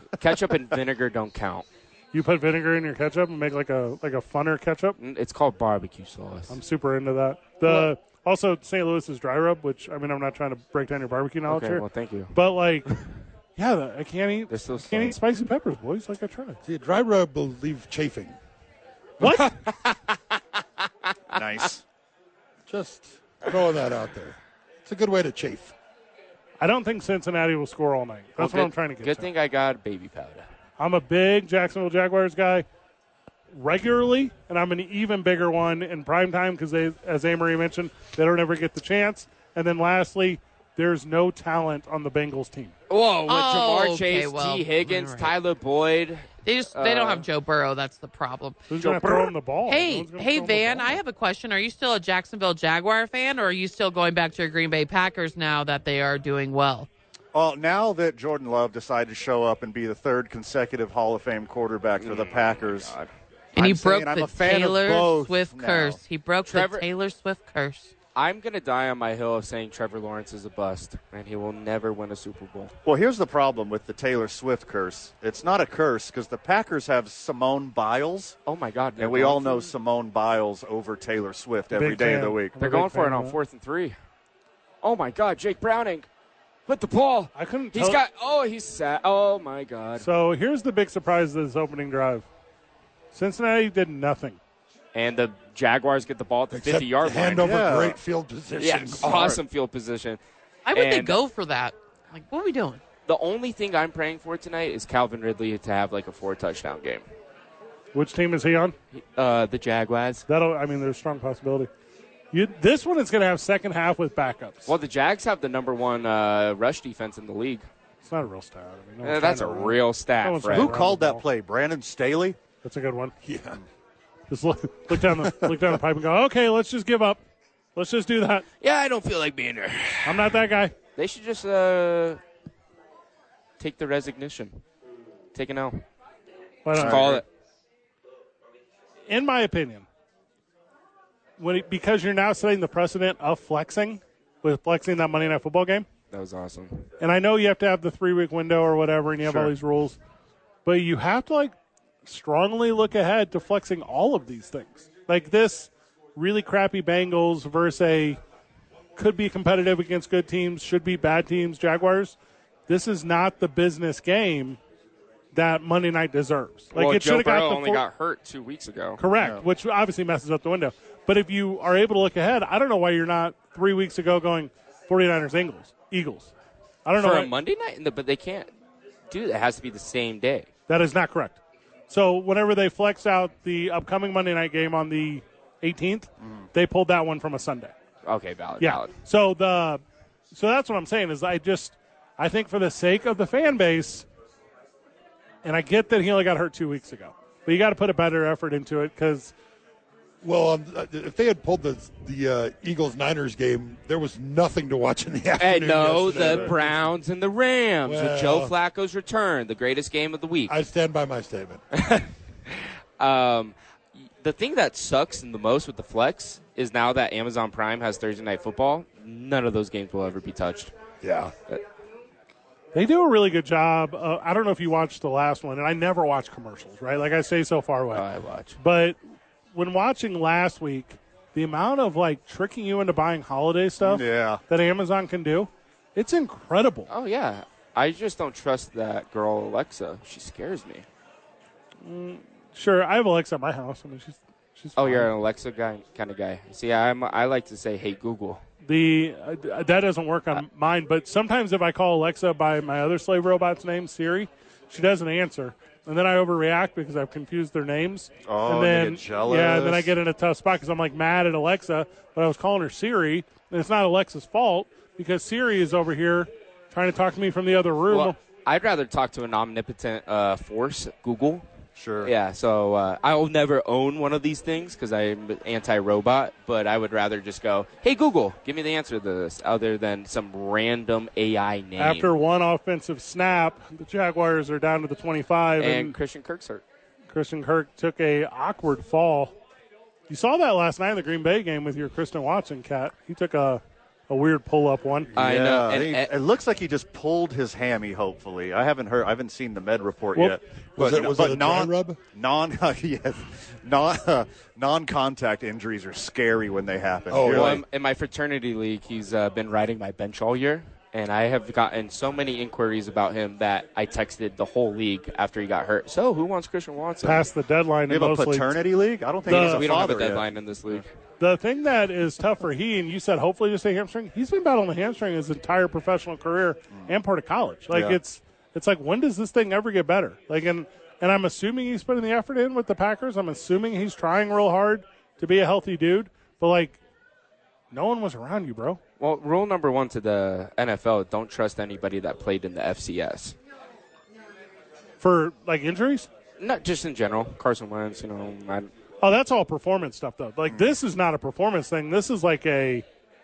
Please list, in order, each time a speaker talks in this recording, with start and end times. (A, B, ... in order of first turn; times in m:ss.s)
0:00.2-0:01.6 A
0:02.1-0:05.0 B
0:05.0-0:06.6 A
0:06.5-0:12.9 B
0:07.6-0:07.9 A
0:11.4-0:12.3 A
0:13.6-0:16.6 B
0:14.5-0:15.2 A
0:16.6-0:18.4 C
0:19.2-0:19.6 B
0:19.2-0:20.2 A
0:21.3-0:21.8 D
0:22.7-0:25.7 C
0:26.6-0:29.3 B
0:28.4-0:30.4 A
0:30.8-0:32.6 B
0:33.5-0:42.7 B
0:42.9-0:47.2 A
0:43.2-0:45.3 E
0:46.4-0:56.9 E
0:48.7-0:51.0 B
0:57.3-1:02.9 D
1:02.0-1:03.1 A
1:03.5-1:06.0 D
1:03.6-1:07.9 E
1:06.4-1:06.9 A
1:08.1-1:12.7 A
1:12.8-1:18.4 D
1:18.4-1:19.7 A
1:19.0-1:22.6 D
1:21.7-1:23.4 B
1:22.6-1:24.0 A
1:24.8-1:26.1 A
1:26.7-1:30.0 A
1:27.3-1:28.0 B
1:30.0-1:32.2 B
1:33.1-1:34.4 B
1:34.9-1:37.5 A
1:36.5-1:39.4 C
1:37.4-1:38.0 D
1:38.6-1:40.2 A
1:40.7-1:42.8 E
1:40.7-1:41.2 A
1:43.0-1:47.0 A
1:47.9-1:48.7 B
1:48.9-1:50.2 A
1:50.3-1:51.7 B
1:52.3-1:54.7 B
1:54.6-1:57.6 A
1:58.0-2:01.2 B
1:59.0-2:00.8 A
2:00.5-2:02.4 D
2:02.6-2:03.1 B
2:03.2-2:03.6 C
2:04.3-2:07.2 B
2:07.8-2:08.4 B
2:08.6-2:10.4 A
2:10.0-2:10.7 B
2:11.0-2:12.2 A
2:13.6-2:14.6 A
2:15.3-2:15.8 A
2:16.6-2:17.2 B
2:16.7-2:17.2 D
2:16.8-2:17.2 A
2:19.1-2:19.8 B
2:21.4-2:25.8 B
2:26.1-2:26.8 A
2:27.0-2:30.0 B
2:29.2-2:29.5 D
2:30.6-2:38.2 B
2:39.0-2:42.2 B
2:42.7-2:44.6 B
2:45.3-2:47.8 B
2:46.7-2:49.0 A
2:49.0-2:56.3 B
2:49.2-2:49.4 D
2:56.8-2:57.3 B
2:57.0-2:58.5 A
2:59.1-3:00.5 A
3:00.7-3:01.4 B
3:01.9-3:07.7 B
3:08.0-3:08.9 A
3:08.6-3:14.0 B
3:15.4-3:19.3 B
3:20.2-3:26.7 C
3:25.4-3:30.6 A
3:26.2-3:26.5 D
3:27.8-3:28.5 C
3:30.5-3:31.6 C
3:31.7-3:33.5 A
3:34.2-3:40.7 A
3:41.0-3:41.3 C
3:42.7-3:48.0 B
3:47.9-3:48.6 A
3:48.6-3:49.0 B
3:49.5-3:56.9 B
3:53.8-3:54.4 D
3:56.9-4:00.8 A
4:01.8-4:05.1 B
4:04.8-4:08.4 A
4:08.6-4:28.2 B
4:18.2-4:19.9 D
4:27.9-4:31.4 A
4:31.8-4:32.1 D
4:32.0-4:42.1 A
4:41.8-4:46.0 B
4:45.6-4:46.6 A
4:47.1-4:49.3 B
4:50.1-4:55.1 B
4:55.1-5:07.6 D
4:55.2-4:56.1 A
5:00.8-5:02.0 C
5:07.1-5:07.6 C
5:07.3-5:17.3 A
5:17.0-5:18.6 B
5:17.9-5:20.8 D
5:19.3-5:20.8 A
5:19.3-5:19.7 B
5:21.2-5:36.8 B
5:27.7-5:28.0 D
5:37.7-5:38.8 B
5:39.0-5:43.4 A
5:45.0-5:46.1 B
5:46.4-5:48.7 A
5:49.0-5:52.8 B